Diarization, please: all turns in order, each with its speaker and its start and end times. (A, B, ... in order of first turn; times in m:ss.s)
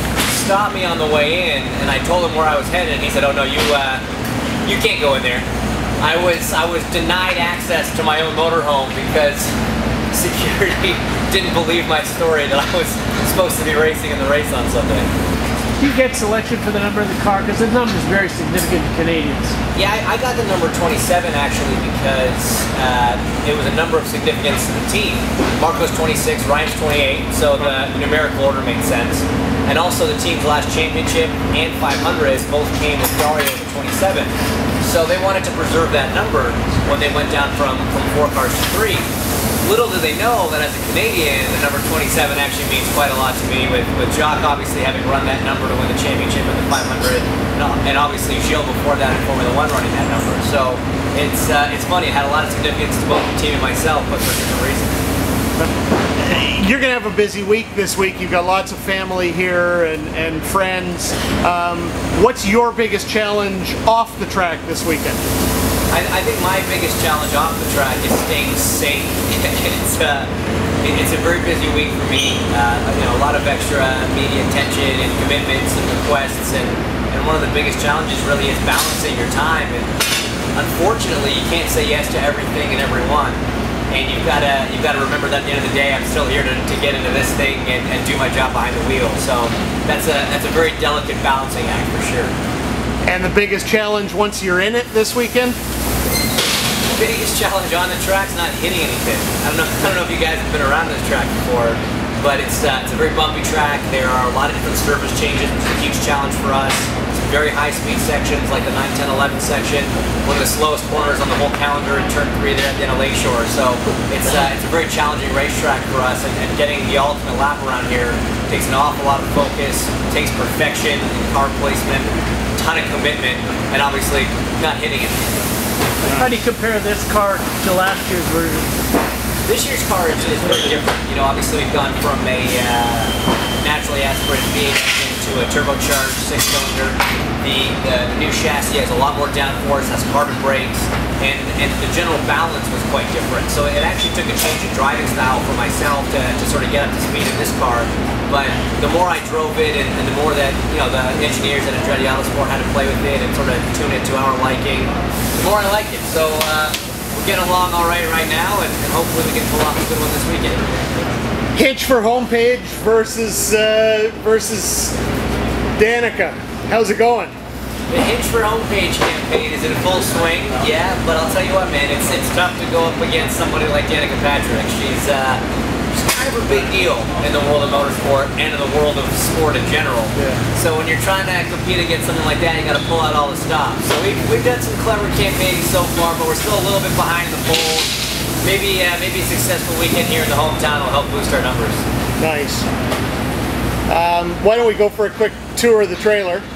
0:00.2-0:04.0 A
0:04.6-0:05.4 A
0:06.0-0:09.5 A
0:10.1-0:15.1 A
0:15.8-0:19.6 B
0:19.7-0:39.1 A
0:39.6-0:55.0 A
0:56.2-1:05.2 C
1:05.9-1:10.3 A
1:10.8-1:19.9 A
1:20.6-1:23.4 A
1:23.9-1:32.3 A
1:33.0-1:35.6 C
1:36.9-2:05.2 A
2:06.1-2:08.7 B
2:09.4-2:40.6 A
2:41.5-2:45.0 C
2:45.8-2:47.3 C
2:47.9-3:11.8 A
3:12.2-3:12.6 C
3:13.9-3:16.4 C